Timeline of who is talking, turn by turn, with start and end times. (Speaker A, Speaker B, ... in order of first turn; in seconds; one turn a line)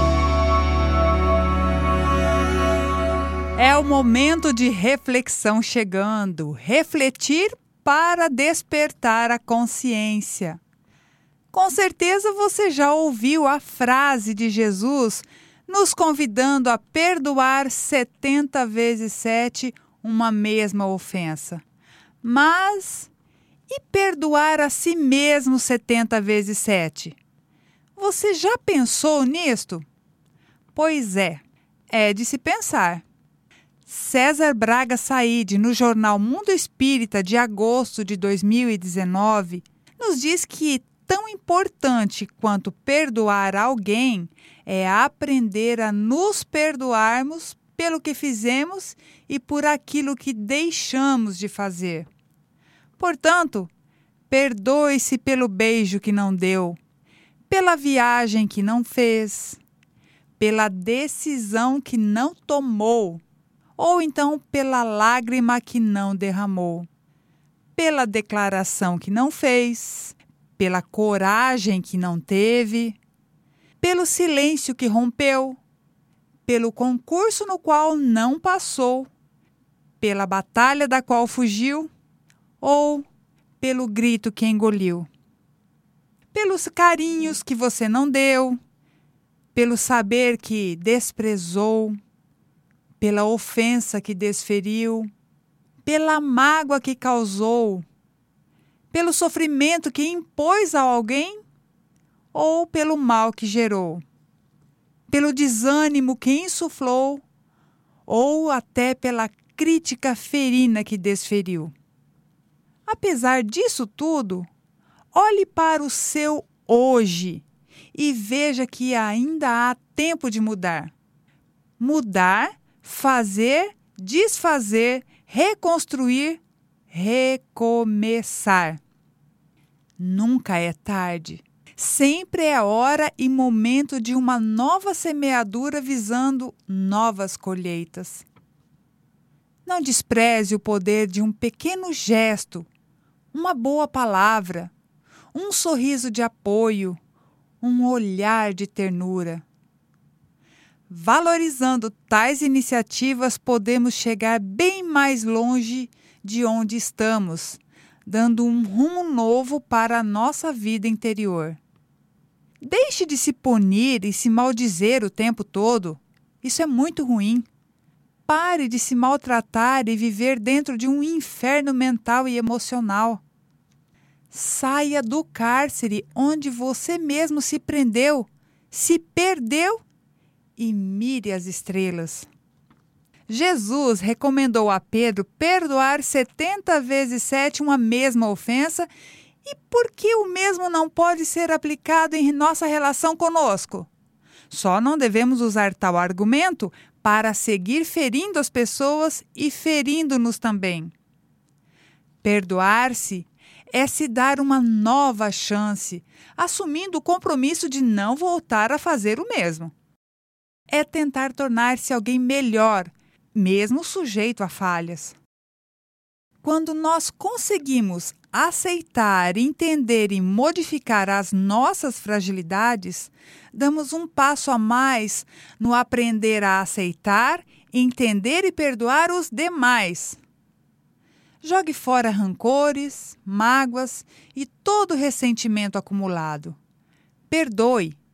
Speaker A: 3.5-10.6
Speaker A: 11.5-21.6
Speaker A: 22.2-23.1
Speaker A: 23.7-27.1
Speaker A: 28.0-29.9
Speaker A: 30.7-33.0
Speaker A: 33.9-52.1
Speaker A: 53.0-53.7
Speaker A: 54.3-56.8
Speaker A: 57.5-59.6
Speaker A: 60.4-63.2
Speaker A: 63.8-66.9
Speaker A: 67.8-73.0
Speaker A: 73.8-75.6
Speaker A: 76.5-79.1
Speaker A: 80.0-81.9
Speaker A: 82.6-83.0
Speaker A: 83.6-85.1
Speaker A: 86.3-88.6
Speaker A: 89.5-92.0
Speaker A: 93.0-95.1
Speaker A: 95.8-97.8
Speaker A: 98.9-101.4
Speaker A: 102.3-104.0
Speaker A: 105.1-107.2
Speaker A: 108.1-111.7
Speaker A: 112.8-114.5
Speaker A: 115.1-120.9
Speaker A: 121.8-128.8
Speaker A: 130.0-138.2
Speaker A: 139.7-142.7
Speaker A: 143.3-144.7
Speaker A: 145.3-147.0
Speaker A: 147.6-149.4
Speaker A: 150.9-161.6
Speaker A: 162.6-167.5
Speaker A: 168.3-173.2
Speaker A: 174.3-179.8
Speaker A: 180.6-182.3
Speaker A: 183.3-188.9
Speaker A: 189.4-193.9
Speaker A: 194.5-200.9
Speaker A: 202.2-209.7
Speaker A: 210.7-215.2
Speaker A: 216.4-230.2
Speaker A: 231.4-236.6
Speaker A: 237.3-238.0